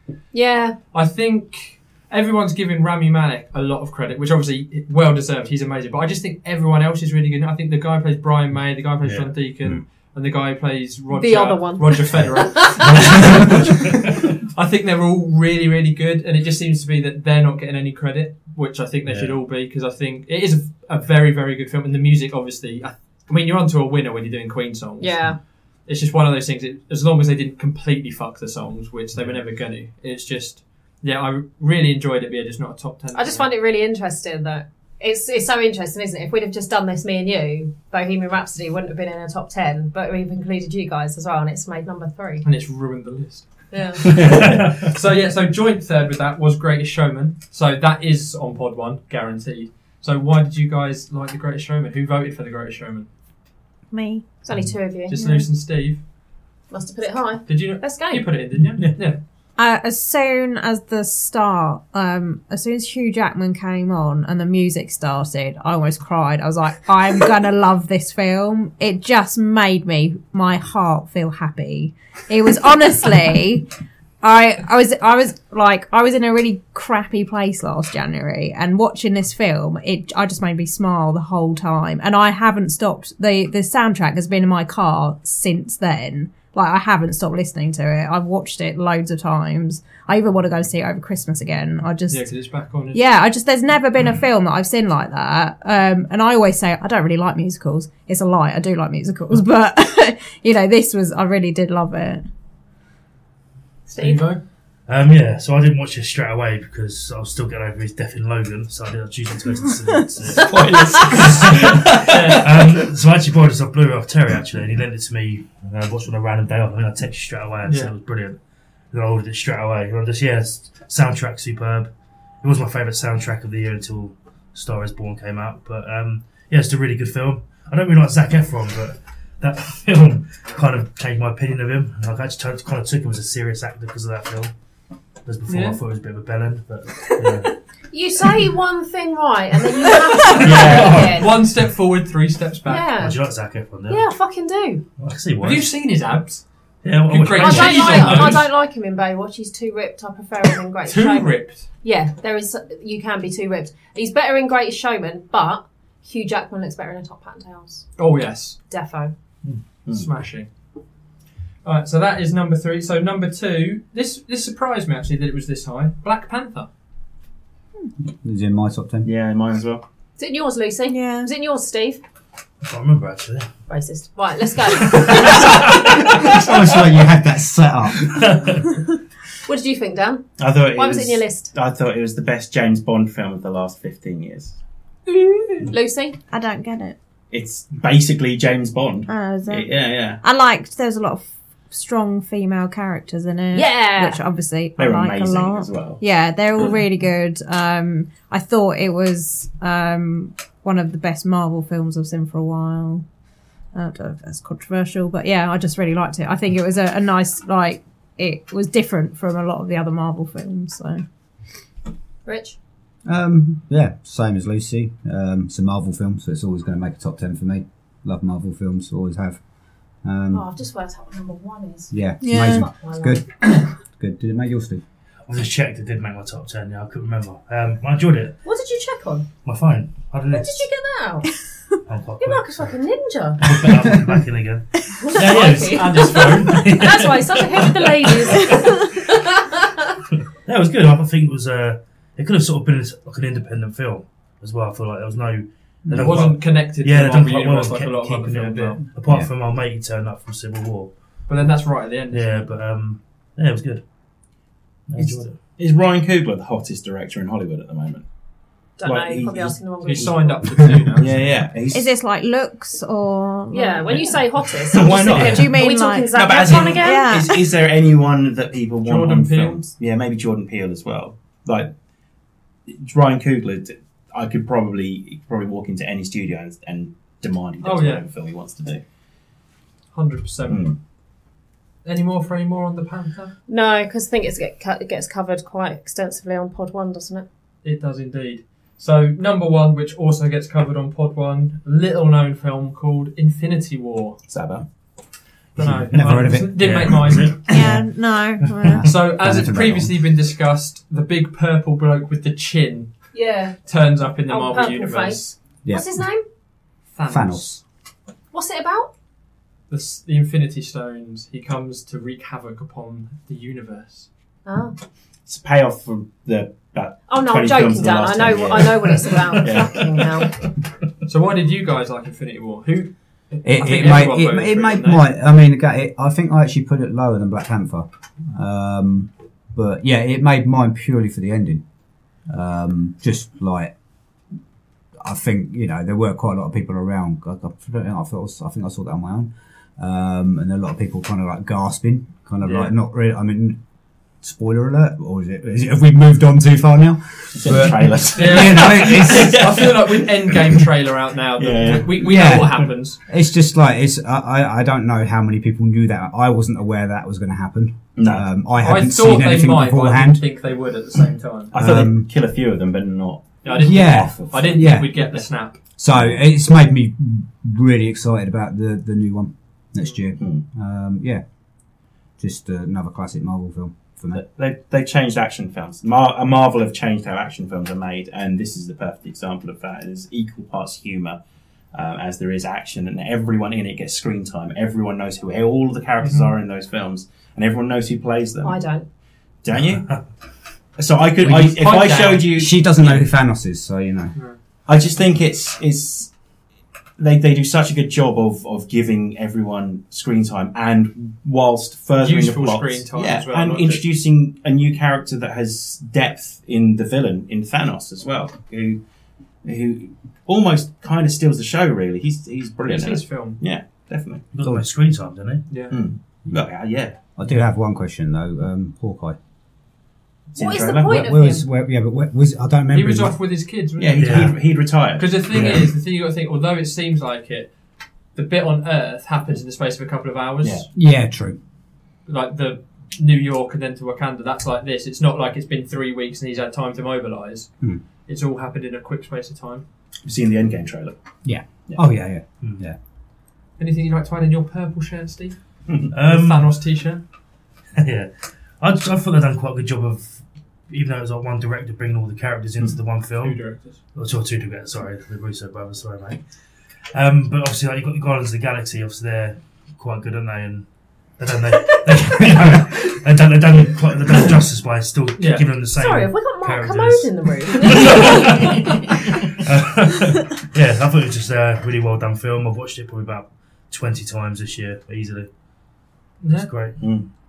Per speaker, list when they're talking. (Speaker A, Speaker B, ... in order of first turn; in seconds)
Speaker A: 0.3-0.8, 11.1-13.0, 25.0-25.4, 33.1-42.4, 43.7-44.2, 54.4-55.2, 56.7-58.3, 103.9-104.2, 137.9-141.4, 142.7-143.2, 143.9-144.8, 147.4-157.8, 158.7-159.1, 170.2-172.0, 173.7-176.2, 179.4-181.5, 185.1-186.2, 193.5-194.2, 212.2-212.6, 220.3-221.9, 222.5-223.2, 228.4-229.3, 230.3-231.3, 232.2-233.7, 234.9-240.0, 258.8-260.4, 263.5-267.1, 283.5-287.2, 303.1-303.6, 304.3-306.2, 308.3-308.9, 314.4-314.7, 317.1-320.3, 388.4-388.9, 420.4-421.4, 465.7-468.9
Speaker B: 0.9-25.2, 25.9-33.5, 42.4-53.1, 55.1-56.0, 57.5-59.2, 92.1-93.1, 103.9-104.4, 112.0-112.5, 117.7-117.9, 135.5-135.8, 140.4-142.9, 145.4-146.4, 147.1-148.4, 150.9-151.7, 158.0-158.6, 159.9-160.5, 161.6-166.7, 235.5-236.8, 245.9-248.8, 251.3-252.5, 259.8-261.1, 268.8-269.6, 277.6-278.0, 279.9-280.7, 281.8-283.3, 287.6-294.2, 295.6-297.4, 298.8-303.1, 303.6-305.3, 306.9-307.6, 309.7-314.1, 321.1-325.1, 342.4-342.7, 348.1-353.0, 358.6-361.5, 363.4-365.6, 386.0-386.3, 391.2-392.3, 402.0-403.8, 412.7-413.4, 422.7-424.3, 425.0-427.5, 428.1-430.7, 432.1-437.5, 438.1-439.6, 443.6-445.4, 445.9-447.0, 453.2-453.8, 465.2-465.4, 476.2-476.5
Speaker C: 9.0-9.3, 12.8-14.1, 19.1-19.4, 44.2-44.9, 58.7-59.0, 104.9-110.6, 111.2-118.4, 118.9-121.9, 122.4-134.5, 135.2-137.5, 140.4-141.2, 142.9-144.0, 145.0-145.7, 146.8-148.4, 172.6-173.5, 174.8-176.4, 178.0-178.8, 225.3-228.3, 229.4-230.7, 231.8-232.7, 233.4-238.8, 240.4-250.9, 252.1-253.8, 254.9-255.4, 296.6-297.7, 298.4-298.7, 414.3-415.4, 424.0-424.3, 445.9-446.5, 447.8-453.4, 453.9-456.2, 456.9-460.7, 461.2-475.3, 476.3-476.8
Speaker D: 44.2-44.5, 110.3-112.4, 140.4-141.1, 169.0-169.8, 180.4-184.6, 187.3-190.2, 194.8-196.0, 255.6-258.0, 258.8-260.1, 260.9-261.9, 264.7-265.6, 266.1-271.7, 272.7-278.8, 280.5-280.8, 294.3-294.6, 315.3-320.0, 347.3-350.0, 351.4-352.3, 357.9-358.3, 361.5-364.6, 374.1-381.2, 381.7-388.6, 389.4-389.9, 390.8-393.0, 394.7-396.1, 397.0-408.8, 409.4-414.2, 415.7-417.0, 420.3-421.0, 423.8-425.6, 440.0-441.0, 476.8-477.1
Speaker E: 53.9-54.2, 55.1-55.5, 59.6-73.7, 74.2-92.3, 92.9-102.2, 170.9-171.3, 186.3-186.9, 189.1-203.0, 203.7-211.0, 222.2-222.7, 261.7-264.2, 265.0-267.4, 297.4-298.9
Speaker F: 168.1-169.1, 175.9-178.3, 213.0-219.4, 220.0-220.5, 221.9-224.8, 245.9-246.2, 295.6-297.9, 298.6-299.9, 307.1-307.6, 323.4-331.6, 332.3-333.7, 335.0-343.6, 344.2-349.5, 352.0-360.2, 361.5-362.1, 363.5-364.9, 365.8-371.2, 372.2-374.2, 392.3-394.1, 417.1-419.2, 420.7-423.1, 430.7-431.4, 441.2-442.8